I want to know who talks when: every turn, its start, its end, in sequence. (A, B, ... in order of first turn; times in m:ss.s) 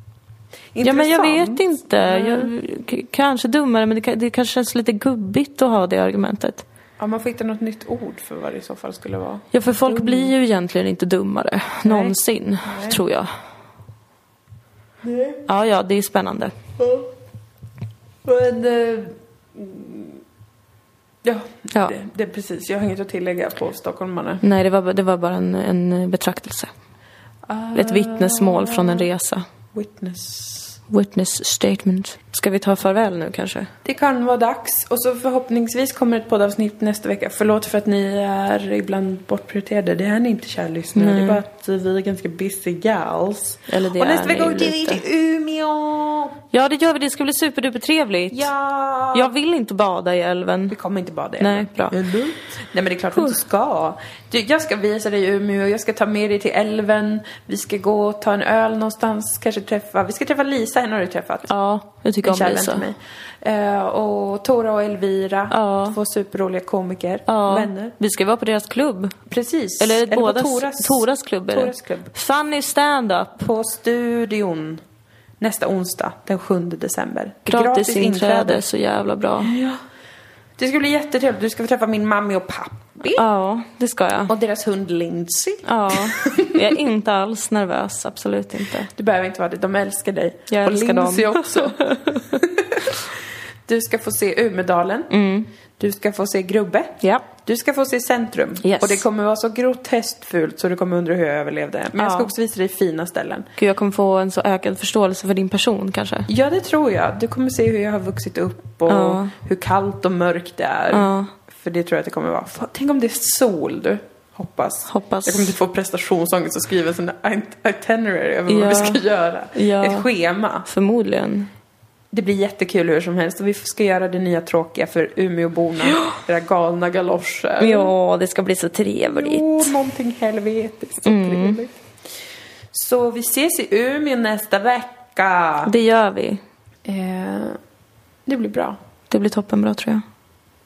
0:00.7-0:02.5 A
0:00.8-0:06.6 B
0:07.0-0:10.3 A
0:09.5-0:13.3 B
0:11.8-0:13.0 A
0:15.0-0:15.4 A
0:15.5-0:16.5 B
0:16.8-0:17.1 A
0:18.2-0:20.2 A
0:21.2-0:24.4 A
0:24.4-0:26.7 B
0:27.5-0:29.1 A
0:27.7-0:29.4 B
0:29.7-0:30.8 A
0:30.9-0:33.7 B
0:33.8-0:46.4 A
0:41.0-0:41.4 B
0:43.7-0:45.0 B
0:46.5-0:48.5 B
0:48.3-0:49.3 A
0:49.1-0:50.8 B
0:50.7-1:01.5 A
0:51.4-0:52.0 B
0:53.1-0:53.4 B
1:01.5-1:02.9 B
1:02.2-1:07.9 A
1:05.5-1:06.0 B
1:07.3-1:09.2 B
1:09.3-1:12.1 A
1:09.8-1:13.4 B
1:13.4-1:14.8 A
1:15.4-1:18.6 A
1:17.5-1:19.5 B
1:19.4-1:19.8 A
1:20.6-1:23.2 A
1:23.2-1:24.3 B
1:24.3-1:26.6 A
1:25.6-1:28.9 B
1:28.9-1:35.1 A
1:30.5-1:32.4 B
1:35.1-1:35.5 B
1:35.8-1:43.5 A
1:37.0-1:37.3 B
1:38.6-1:39.0 B
1:42.0-1:42.3 B
1:43.6-1:46.3 B
1:46.3-2:00.7 A
1:48.9-1:49.3 B
1:50.9-1:51.3 B
1:54.9-1:55.6 B
1:58.5-2:00.1 B
2:00.7-2:01.5 B
2:02.1-2:07.9 A
2:07.6-2:09.8 B
2:09.1-2:11.8 A
2:11.0-2:11.6 B
2:12.7-2:15.7 A
2:15.7-2:16.4 B
2:16.9-2:17.6 A
2:18.3-2:18.8 A
2:19.1-2:20.0 B